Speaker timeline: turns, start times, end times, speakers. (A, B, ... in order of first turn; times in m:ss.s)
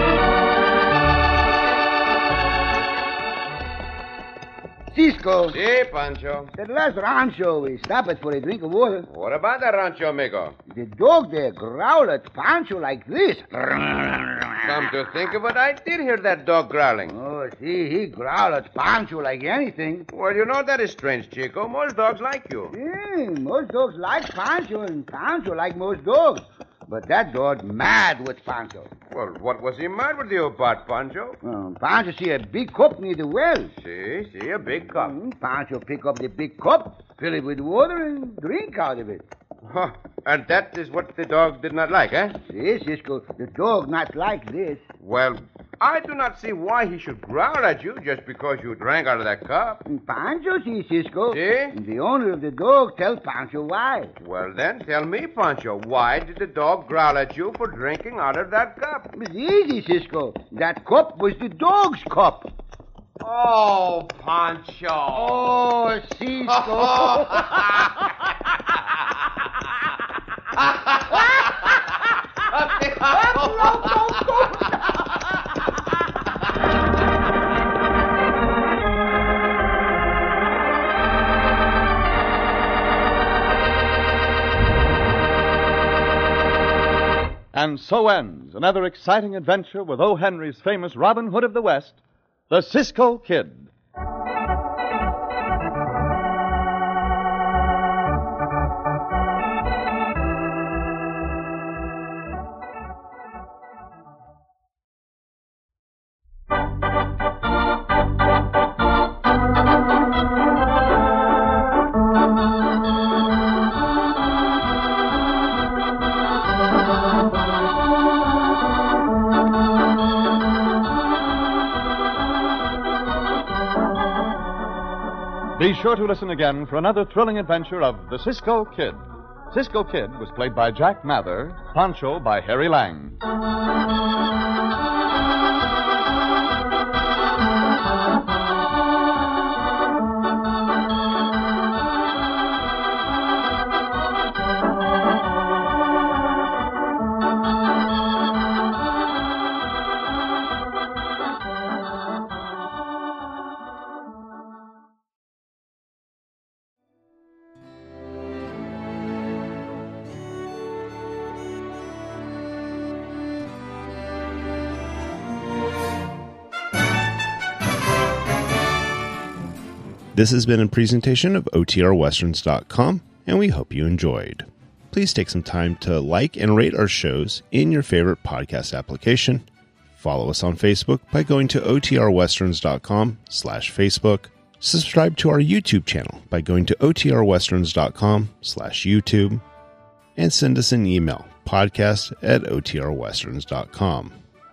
0:04.9-0:05.6 A
0:05.5-0:06.5 B
0:06.6-0:09.1 A
0:09.1-0:10.6 B
0:10.7-0:14.9 A
0:14.6-0:17.1 B
0:17.1-0:20.1 A
0:20.1-0:22.7 B
0:22.7-0:28.9 A
0:29.1-0:31.4 B
0:31.4-0:33.7 A
0:33.8-0:35.1 B
0:34.9-0:39.2 A
0:39.6-0:42.4 B
0:42.4-0:44.8 A
0:45.0-0:49.8 B
0:49.8-0:54.1 A
0:51.3-0:51.7 B
0:54.2-0:59.1 B
0:59.1-1:02.5 A
1:03.2-1:05.5 B
1:05.1-1:07.6 A
1:06.5-1:08.0 B
1:10.6-1:11.8 B
1:12.5-1:14.6 B
1:13.0-1:14.7 A
1:27.5-1:32.0 C
1:32.5-1:33.7 C
2:05.6-2:13.2 C
2:50.1-2:59.4 D
3:00.0-3:09.4 D
3:10.2-3:14.2 D